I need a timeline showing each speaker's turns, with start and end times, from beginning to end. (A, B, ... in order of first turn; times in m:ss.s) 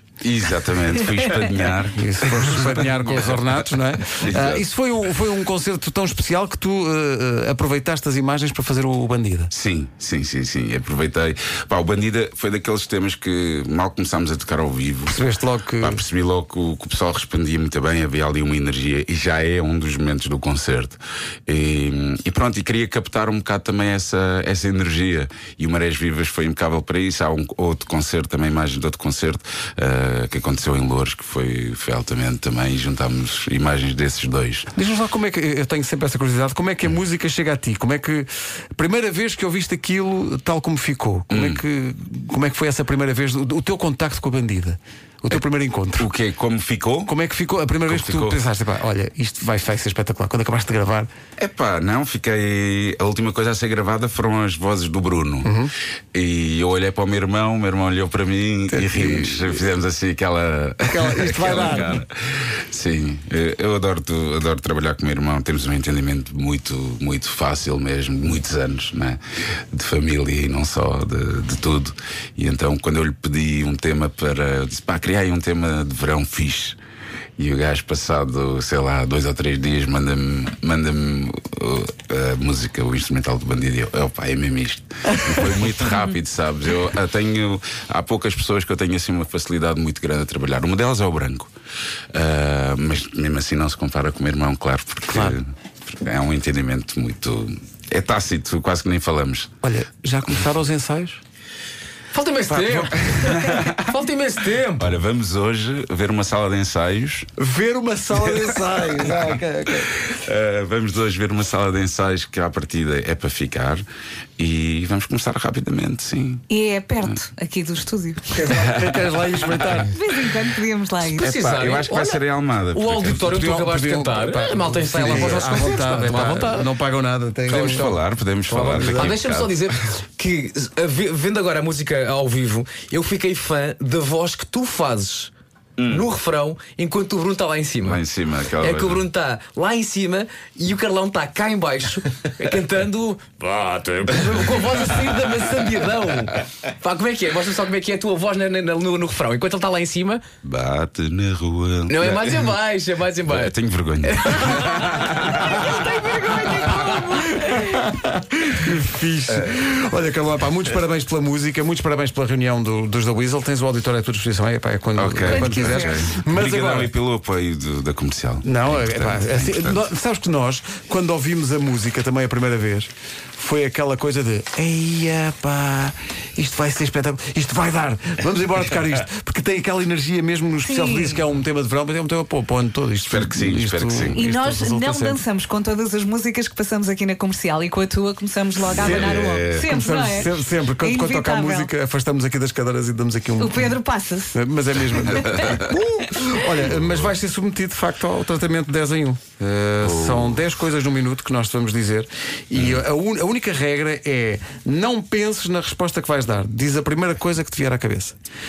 0:00.2-0:03.2 A
0:01.9-0:09.5 B
0:04.1-0:04.6 A
0:09.5-0:34.7 A
0:15.1-0:16.0 B
0:34.7-0:46.1 B
0:41.3-0:41.6 A
0:46.0-0:47.1 A
0:47.1-0:51.1 B
0:47.8-0:48.4 A
0:51.4-0:55.5 A
0:55.4-0:55.7 B
0:56.1-1:09.2 A
0:58.7-0:59.6 B
1:00.9-1:02.0 B
1:09.7-1:16.8 A
1:17.4-1:31.5 A
1:32.1-1:39.5 A
1:35.1-1:35.4 B
1:39.6-1:41.2 B
1:42.1-1:45.0 C
1:42.5-1:43.9 A
1:44.8-1:47.3 A
1:47.4-1:49.9 B
1:49.1-1:49.3 A
1:49.8-1:53.8 A
1:54.4-1:56.4 A
1:56.5-1:58.4 D
1:58.3-2:00.0 B
1:58.4-2:00.3 A
1:59.9-2:01.2 D
2:01.0-2:06.7 C
2:01.1-2:03.3 A
2:03.1-2:07.9 B
2:07.5-2:09.7 A
2:07.5-2:15.3 C
2:08.8-2:09.1 B
2:15.8-2:16.1 A
2:15.9-2:30.2 C
2:17.8-2:19.0 A
2:30.4-2:32.6 A
2:31.9-2:35.1 C
2:33.3-2:36.8 A
2:35.7-2:37.6 D
2:36.4-2:46.9 B
2:45.0-2:49.8 A
2:45.2-2:46.0 D
2:48.4-3:05.2 B
3:00.6-3:01.2 D
3:03.1-3:04.2 A
3:04.1-3:11.7 D
3:08.6-3:10.2 A
3:08.8-3:13.8 B
3:13.4-3:14.4 D
3:14.3-3:28.2 B
3:15.0-3:15.7 A
3:19.8-3:20.4 A
3:22.5-3:22.8 A